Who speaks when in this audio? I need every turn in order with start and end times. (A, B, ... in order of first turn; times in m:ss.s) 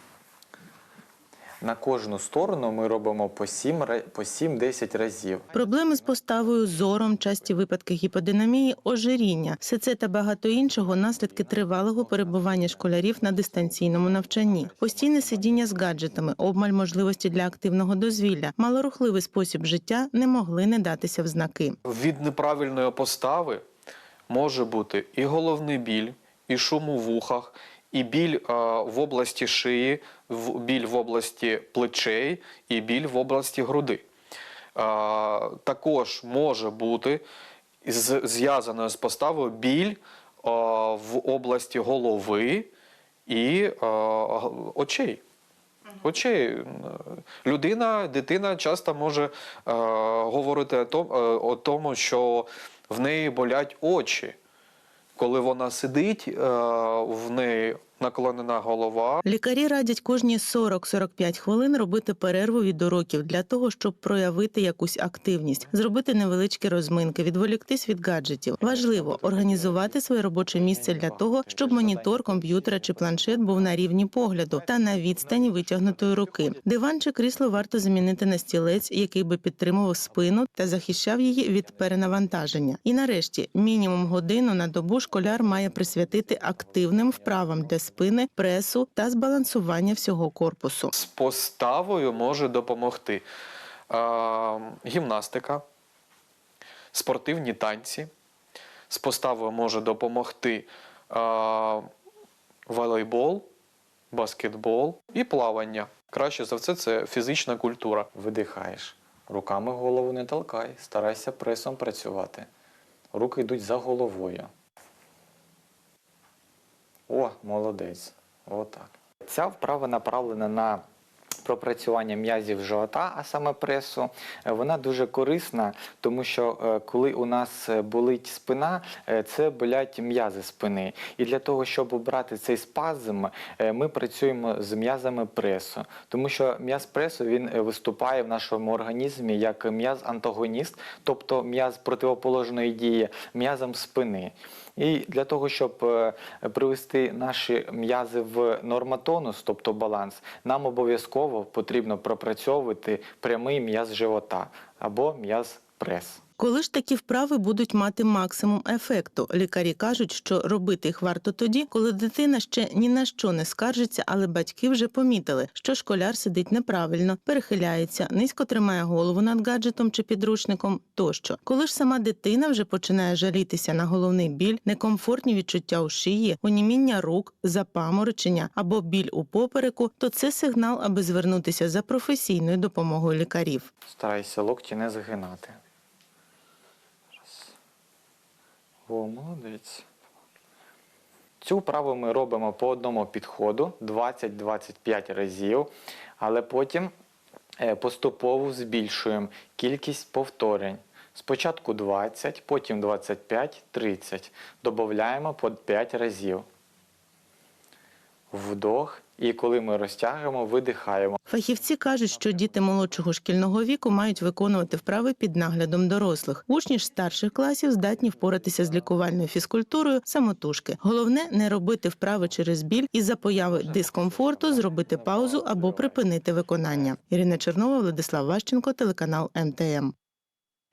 0:01.6-0:05.6 A
0:05.5-0:21.8 B
0:21.8-0:23.6 C
0:24.3-0:34.0 C
0:34.7-0:37.2 C
0:37.8-0:42.7 C
0:43.3-0:45.2 C
0:46.0-0:54.4 C
0:55.2-0:59.2 C
0:59.2-1:30.9 B
1:08.7-1:09.7 A
1:30.9-1:33.2 C
1:33.9-1:35.6 C
1:36.9-1:38.1 C
1:38.9-1:41.9 C
1:42.7-1:43.5 C
1:44.1-1:48.1 C
1:48.1-1:52.5 A
1:53.1-1:54.5 A
1:57.1-2:00.8 A
2:01.4-2:36.2 A
2:36.4-3:03.7 B
3:03.8-3:05.6 A
3:07.2-3:07.5 A
3:08.9-3:09.8 A
3:11.4-3:16.9 A
3:17.6-3:26.4 A
3:28.3-3:31.2 A
3:31.3-3:49.9 B